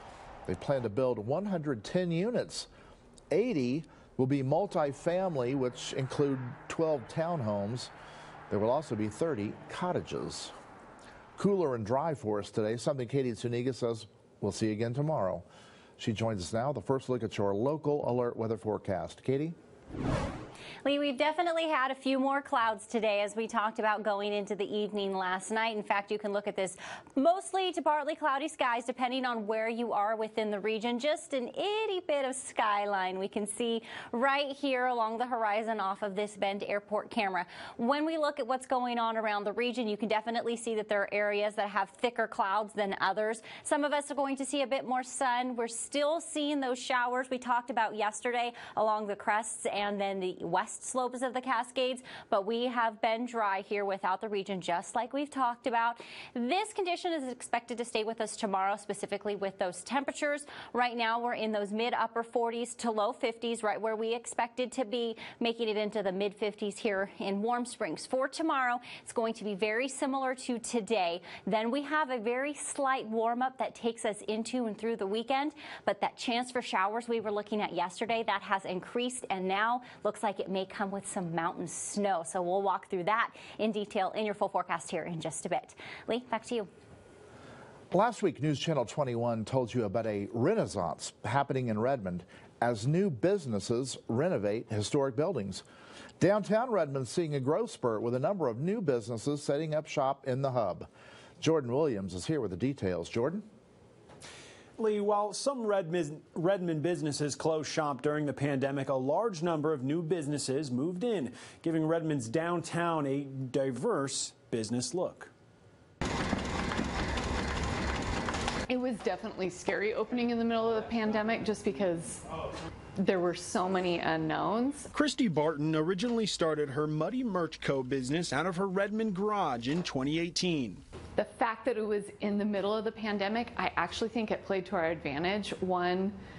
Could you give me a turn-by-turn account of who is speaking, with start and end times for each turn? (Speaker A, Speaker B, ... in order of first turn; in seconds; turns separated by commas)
Speaker A: 0.5-2.7, Speaker A: 3.3-7.9, Speaker A: 8.5-10.5, Speaker A: 11.3-15.4, Speaker A: 16.0-19.6, Speaker B: 20.8-86.7, Speaker A: 87.9-95.6, Speaker A: 96.2-100.9, Speaker A: 101.4-103.4, Speaker C: 104.8-115.3, Speaker D: 118.7-122.3, Speaker D: 123.0-124.9, Speaker C: 124.9-130.8, Speaker D: 131.2-136.2